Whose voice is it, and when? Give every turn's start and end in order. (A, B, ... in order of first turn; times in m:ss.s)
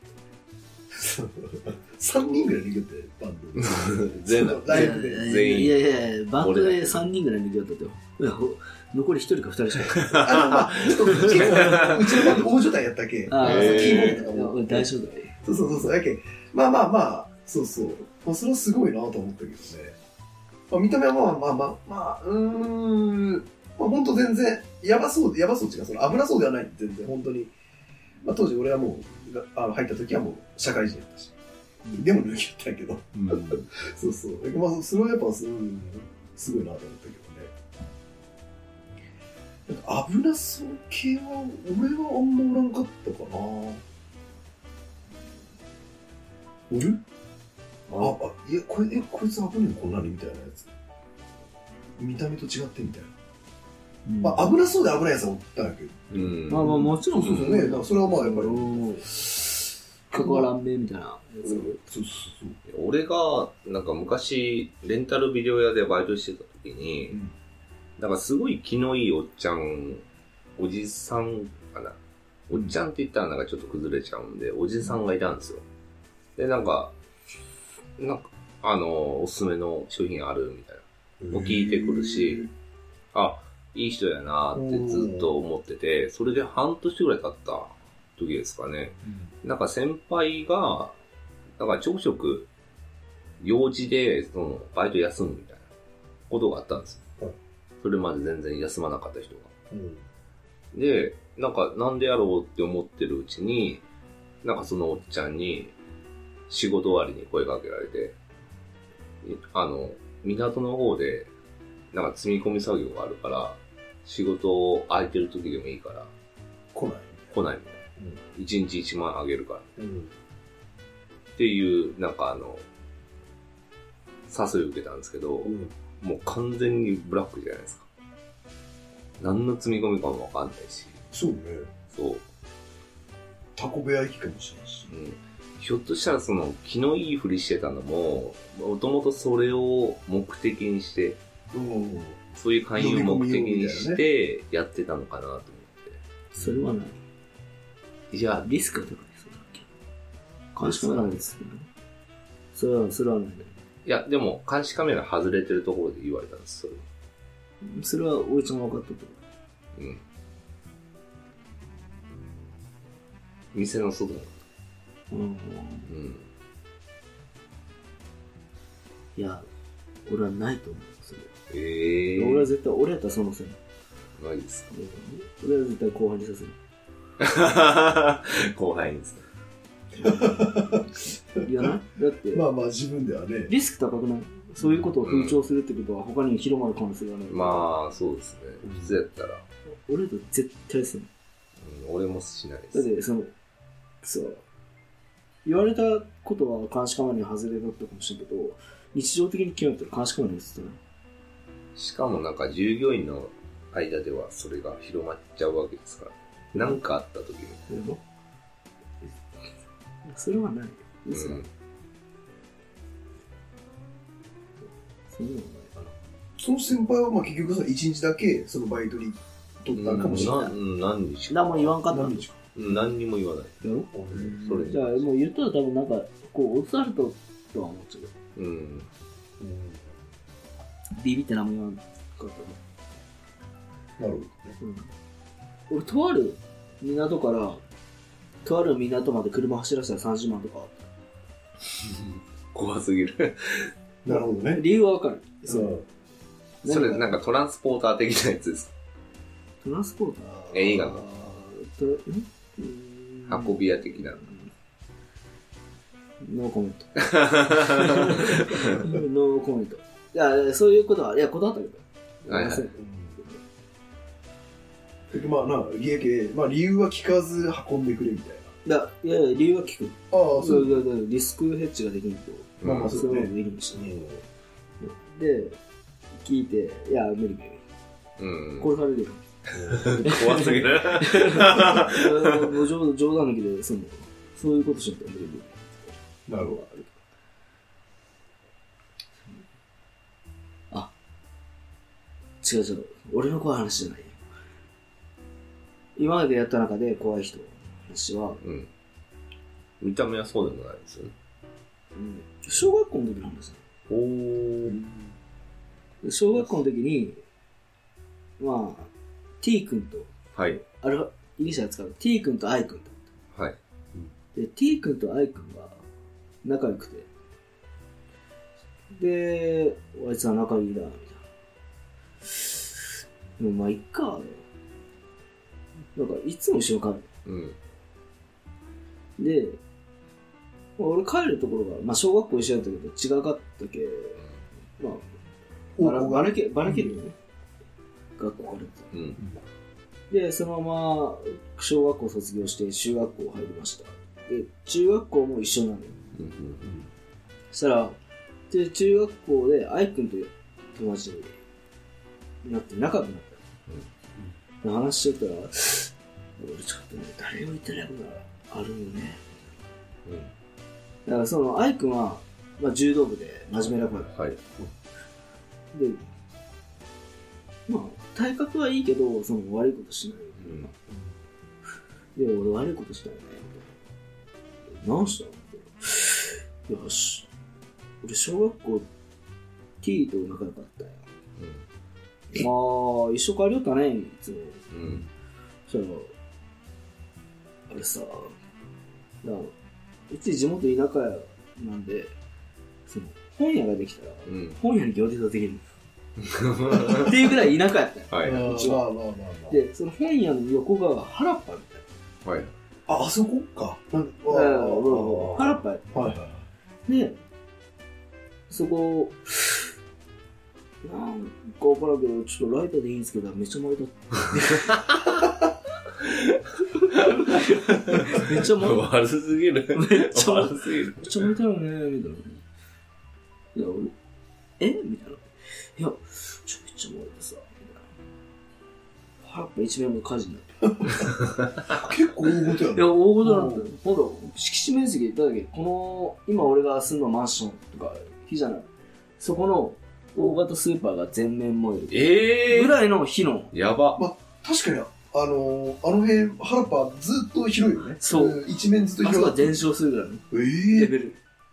0:00.9-0:05.3 A
0:03.6-0:07.0 B
0:04.7-0:10.4 C
0:09.9-0:12.4 B
0:10.2-0:14.9 A
0:11.1-0:12.4 C
0:13.3-0:15.3 C
0:13.4-0:14.2 B
0:15.4-0:20.0 A
0:20.7-0:27.5 A
0:28.2-0:31.3 A
0:31.9-0:37.5 A
0:39.7-0:43.8 A
0:46.7-0:47.0 A
0:47.9-0:48.1 C
0:48.0-0:50.7 A
0:52.0-0:53.1 A
0:54.1-0:54.5 C
0:54.2-1:00.5 A
0:56.1-0:57.6 B
0:56.5-0:59.1 C
1:00.1-1:01.8 C
1:01.4-1:02.6 A
1:02.7-1:07.2 B
1:08.0-1:10.0 B
1:10.6-1:12.0 B
1:12.5-1:15.6 B
1:16.4-1:16.9 B
1:18.0-1:22.5 B
1:21.2-1:22.5 A
1:23.1-1:30.9 B
1:24.5-1:25.3 A
1:31.6-1:32.5 B
1:33.4-1:35.7 B
1:36.3-1:37.1 B
1:37.8-1:39.5 B
1:39.7-1:40.0 A
1:40.7-1:43.8 B
1:44.4-1:45.7 B
1:46.5-1:48.1 B
1:49.2-1:51.3 B
1:51.9-1:56.1 B
1:56.7-1:57.3 A
1:57.3-1:57.8 B
1:58.3-1:59.7 B
1:59.8-2:00.1 A
2:01.4-2:02.6 B
2:04.3-2:07.8 B
2:05.4-2:05.7 A
2:09.2-2:11.0 B
2:11.1-2:11.7 A
2:11.9-2:12.2 B
2:13.6-2:14.9 A
2:14.9-2:21.2 B
2:21.5-2:22.2 A
2:22.3-2:26.0 B
2:22.7-2:24.0 A
2:26.3-2:27.0 C
2:28.1-2:28.4 B
2:28.4-2:29.7 C
2:30.6-2:31.7 C
2:32.5-2:33.5 C
2:33.8-2:36.8 B
2:37.6-2:39.2 C
2:39.8-2:40.0 B
2:43.5-2:44.4 B
2:45.1-2:45.9 C
2:45.9-2:46.2 B
2:49.2-2:49.5 C
2:50.1-2:51.3 C
2:51.5-2:52.5 B
2:52.2-2:53.6 C
2:54.2-2:54.7 B
2:54.7-2:56.6 C
2:57.2-2:59.2 B
3:00.0-3:02.4 C
3:00.0-3:01.7 A
3:02.3-3:03.5 A
3:03.5-3:07.7 C
3:04.6-3:04.9 A
3:05.0-3:05.4 B
3:07.3-3:09.4 B
3:08.6-3:09.0 A
3:09.9-3:11.1 C
3:11.6-3:12.9 B
3:12.7-3:13.3 C
3:14.0-3:14.4 C
3:15.4-3:20.8 C
3:21.8-3:27.8 B
3:27.7-3:28.0 C
3:30.1-3:31.4 C
3:31.1-3:31.5 B
3:35.1-3:35.9 C
3:36.4-3:40.5 A
3:39.7-3:41.8 B
3:40.0-3:40.6 C
3:41.3-3:42.3 C
3:41.9-3:42.4 A
3:42.6-3:43.6 B
3:43.6-3:48.1 C
3:43.9-3:44.7 A
3:44.1-3:45.0 B
3:48.4-3:48.9 B
3:49.4-3:49.8 A
3:51.0-3:52.6 C
3:54.0-3:54.6 A
3:54.6-3:54.9 C
3:55.7-3:57.6 C
3:58.4-4:00.9 C
4:01.8-4:03.7 B
4:04.0-4:04.6 A
4:04.1-4:05.8 C
4:05.4-4:05.8 A
4:06.6-4:07.1 C
4:06.6-4:08.7 B
4:09.6-4:14.5 C
4:10.5-4:11.1 B
4:13.3-4:14.2 B
4:16.2-4:23.4 C
4:17.0-4:18.8 B
4:22.3-4:22.7 B
4:22.8-4:23.2 A
4:25.1-4:28.5 A
4:28.6-4:34.0 C
4:30.1-4:30.8 A
4:32.6-4:33.0 B
4:32.6-4:34.2 A
4:34.8-4:35.6 C
4:36.2-4:37.6 C
4:38.2-4:38.7 B
4:38.6-4:39.2 C
4:39.5-4:40.0 A
4:39.5-4:42.5 B
4:40.0-4:46.9 C
4:46.3-4:46.6 A
4:52.4-4:54.2 C
4:56.0-4:58.4 C
4:58.4-4:58.7 B
4:59.8-5:01.1 B
5:01.9-5:03.6 C
5:03.9-5:04.8 B
5:04.7-5:05.1 A
5:06.0-5:07.2 C
5:08.4-5:13.0 C
5:10.3-5:10.6 B
5:14.3-5:15.8 C
5:16.4-5:17.1 C
5:18.9-5:21.2 C
5:22.3-5:22.6 C
5:23.4-5:24.4 C
5:25.9-5:27.1 C
5:27.2-5:27.6 B
5:29.2-5:29.6 C
5:30.8-5:34.2 C
5:34.8-5:35.1 C
5:35.8-5:36.9 A
5:35.8-5:37.2 C
5:38.2-5:38.9 C
5:38.9-5:39.2 B
5:40.1-5:46.0 C
5:46.2-5:46.7 B
5:47.5-5:48.0 C
5:48.5-5:51.3 C
5:52.4-5:53.4 C
5:54.6-5:59.4 C
6:01.1-6:04.1 C
6:04.1-6:04.4 B
6:05.7-6:06.0 C
6:07.7-6:10.7 C
6:10.4-6:10.7 B
6:12.2-6:13.7 C
6:14.7-6:17.3 C
6:18.0-6:18.9 C
6:19.8-6:21.1 C
6:21.4-6:21.6 B
6:22.3-6:24.6 C
6:24.7-6:25.1 B
6:25.7-6:26.1 C
6:27.7-6:28.4 C
6:29.2-6:29.5 C
6:30.1-6:32.2 C
6:32.9-6:35.6 C
6:34.2-6:34.6 B
6:36.2-6:37.2 B
6:36.8-6:38.8 C
6:38.1-6:38.5 B
6:38.2-6:39.6 A
6:39.5-6:41.8 C
6:42.2-6:42.5 B
6:42.9-6:46.4 A
6:44.3-6:45.9 C
6:46.8-6:47.2 C
6:48.5-6:49.7 C
6:50.8-6:54.8 C
6:56.1-6:56.4 B
6:56.8-6:58.9 C
6:56.9-7:01.3 B
6:59.7-7:02.4 C
7:03.6-7:03.9 C
7:04.6-7:07.8 C
7:09.2-7:11.0 C
7:11.7-7:13.7 A
7:12.7-7:18.7 C
7:19.2-7:23.5 C
7:21.9-7:22.8 B
7:23.5-7:24.0 B
7:24.0-7:29.7 A
7:28.0-7:28.4 C
7:29.0-7:31.2 C
7:30.3-7:30.9 A